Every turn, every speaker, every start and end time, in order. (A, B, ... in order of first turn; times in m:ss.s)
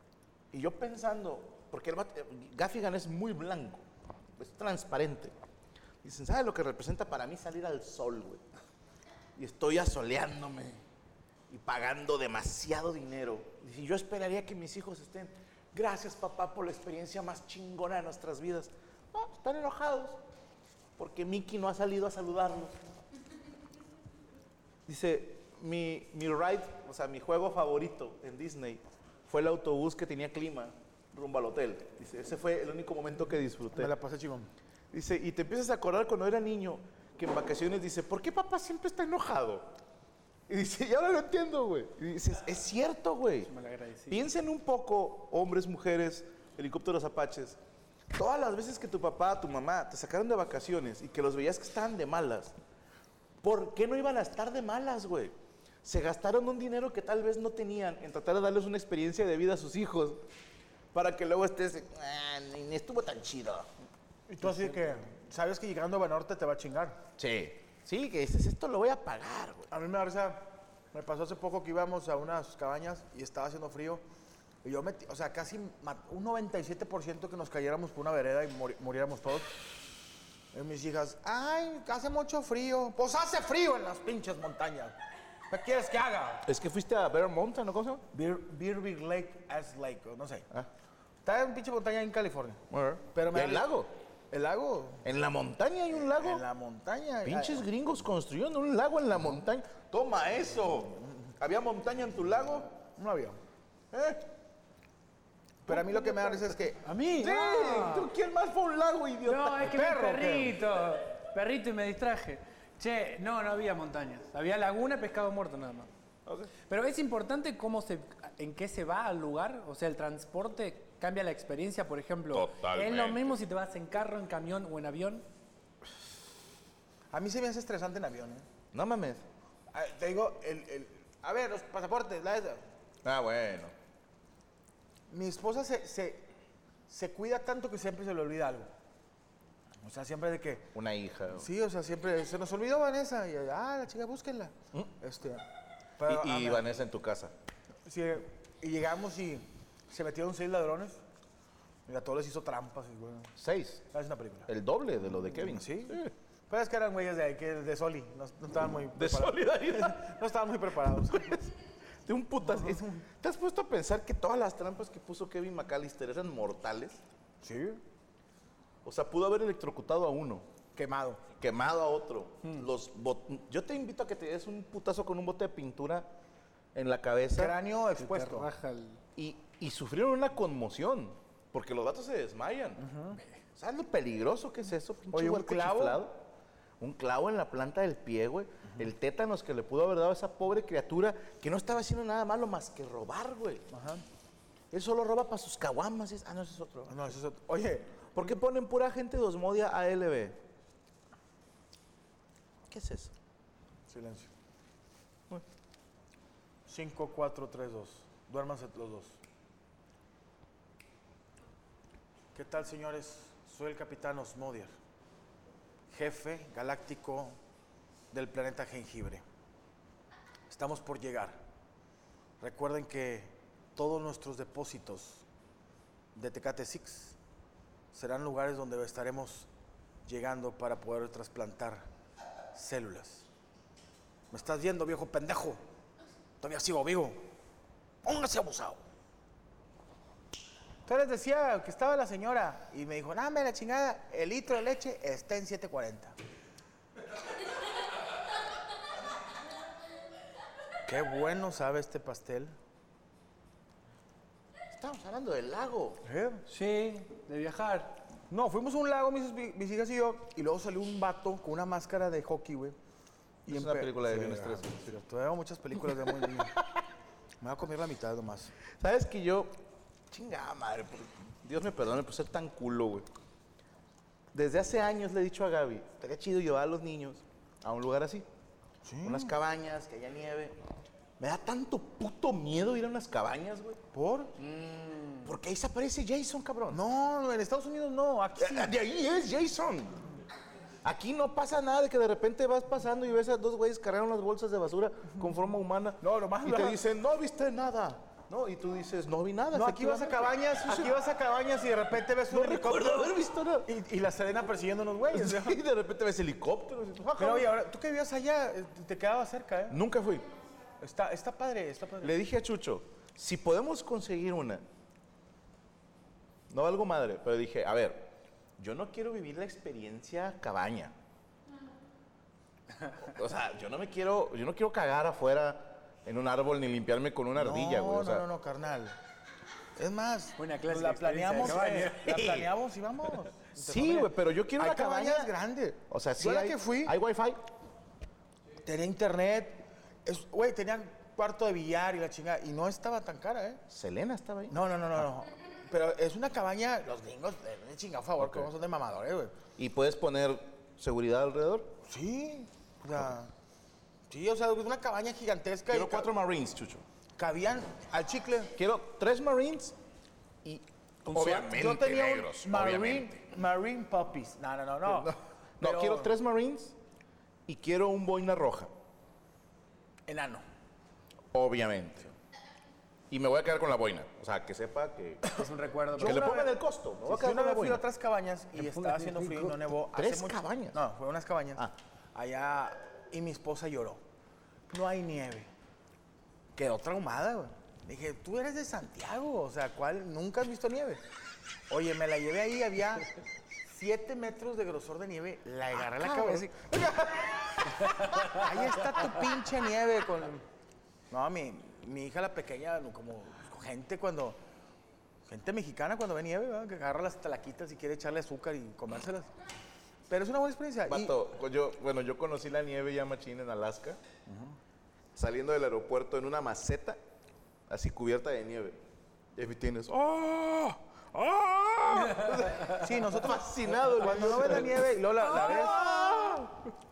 0:00.5-0:03.8 A
0:04.4-0:05.3 A
0:06.0-0:08.4 A
0:09.4-0:10.8 A
0:11.5-0:20.2 A
0:21.0-0:22.8 A
0:24.9-0:33.9 A
0:33.7-0:34.5 B
0:34.9-0:39.7 A
0:40.5-0:43.5 A
0:43.5-0:44.2 C
0:44.1-0:47.6 A
0:48.1-0:52.5 A
0:53.4-1:00.2 A
1:00.9-1:03.7 A
1:04.3-1:07.0 B
1:07.2-1:09.7 A
1:09.7-1:14.0 B
1:14.6-1:19.6 B
1:20.5-1:25.0 B
1:25.5-1:26.5 B
1:26.4-1:28.0 A
1:28.1-1:30.5 B
1:31.2-1:33.7 B
1:32.7-1:33.9 A
1:34.3-1:35.0 B
1:35.0-1:36.4 A
1:35.9-1:37.7 B
1:37.2-1:42.7 A
1:43.0-1:43.4 B
1:43.9-1:44.2 A
1:45.6-1:46.8 B
1:45.7-1:49.6 A
1:46.8-1:48.1 C
1:49.2-1:55.9 C
1:49.6-1:50.6 B
1:56.2-1:56.5 A
1:56.7-2:05.2 C
2:02.3-2:03.3 A
2:07.1-2:08.5 B
2:08.7-2:09.2 A
2:09.7-2:12.6 B
2:13.0-2:13.7 A
2:15.1-2:16.3 B
2:16.9-2:18.7 B
2:19.8-2:20.7 B
2:20.7-2:21.5 A
2:21.3-2:25.4 B
2:26.0-2:26.7 B
2:26.0-2:27.3 A
2:27.8-2:31.0 B
2:31.8-2:33.3 B
2:33.4-2:33.8 A
2:33.9-2:34.5 B
2:34.5-2:36.1 A
2:35.0-2:41.4 B
2:38.9-2:40.0 A
2:41.1-2:41.5 A
2:42.0-2:47.0 A
2:42.5-2:42.9 B
2:47.4-2:47.8 B
2:48.8-2:50.4 A
2:50.7-2:51.2 B
2:51.4-2:56.1 A
2:56.7-2:57.5 A
2:57.3-2:58.5 B
2:58.0-2:59.0 C
2:59.2-3:02.8 A
3:02.8-3:03.2 B
3:03.6-3:06.2 A
3:05.1-3:06.0 B
3:06.8-3:13.6 A
3:13.7-3:14.0 B
3:14.7-3:17.0 A
3:16.9-3:18.1 B
3:18.1-3:20.4 A
3:22.7-3:23.1 A
3:23.9-3:24.3 B
3:26.6-3:29.2 B
3:32.3-3:34.7 B
3:35.9-3:37.4 B
3:38.1-3:39.2 B
3:40.5-3:41.4 B
3:42.4-3:45.2 B
3:46.1-3:47.2 B
3:47.9-3:49.5 B
3:50.0-3:51.8 B
3:52.5-3:53.2 B
3:54.3-3:55.6 B
3:56.4-3:57.2 B
3:58.0-3:58.8 B
4:00.8-4:06.2 B
4:10.8-4:12.5 B
4:14.7-4:16.0 A
4:16.0-4:16.4 B
4:16.5-4:18.0 C
4:18.3-4:22.8 B
4:23.4-4:26.5 B
4:23.5-4:24.9 A
4:27.4-4:28.5 B
4:28.8-4:29.5 A
4:30.1-4:33.0 A
4:34.3-4:38.2 A
4:38.8-4:39.4 B
4:39.0-4:40.6 A
4:41.2-4:43.8 A
4:43.9-4:44.3 B
4:44.5-4:45.3 C
4:45.2-4:46.8 A
4:46.7-4:48.7 B
4:48.4-4:50.0 A
4:50.8-5:01.0 A
4:56.0-4:56.8 B
4:59.5-5:05.6 B
5:02.3-5:03.7 A
5:05.1-5:07.5 A
5:07.2-5:09.8 B
5:09.7-5:10.3 A
5:10.8-5:12.2 B
5:12.0-5:14.6 A
5:16.5-5:20.9 A
5:23.0-5:28.2 A
5:27.4-5:29.0 B
5:29.8-5:37.0 B
5:30.4-5:32.1 C
5:31.5-5:32.5 A
5:33.5-5:35.3 A
5:35.9-5:37.4 A
5:38.6-5:43.6 B
5:43.7-5:44.6 A
5:44.5-5:49.4 B
5:48.2-5:48.5 A
5:49.6-5:51.7 A
5:51.8-5:53.3 B
5:54.1-5:56.1 B
5:55.7-5:56.8 A
5:57.2-5:58.5 B
5:58.6-5:59.7 A
6:00.4-6:03.2 A
6:01.1-6:06.1 B
6:04.8-6:06.7 A
6:07.5-6:08.7 A
6:10.1-6:10.4 B
6:11.3-6:12.1 A
6:13.1-6:15.3 A
6:15.3-6:16.3 C
6:15.9-6:24.0 B
6:16.0-6:17.8 A
6:18.6-6:19.6 C
6:19.9-6:20.8 A
6:24.7-6:25.5 B
6:26.5-6:31.0 B
6:31.7-6:33.1 B
6:33.6-6:40.4 B
6:35.8-6:36.5 A
6:41.1-6:44.4 B
6:45.2-6:49.3 B
6:50.1-6:51.2 B
6:50.9-6:54.0 A
6:54.2-6:54.6 B
6:55.1-6:57.0 A
6:57.7-6:58.8 A
6:59.4-7:06.5 A
7:02.7-7:05.9 B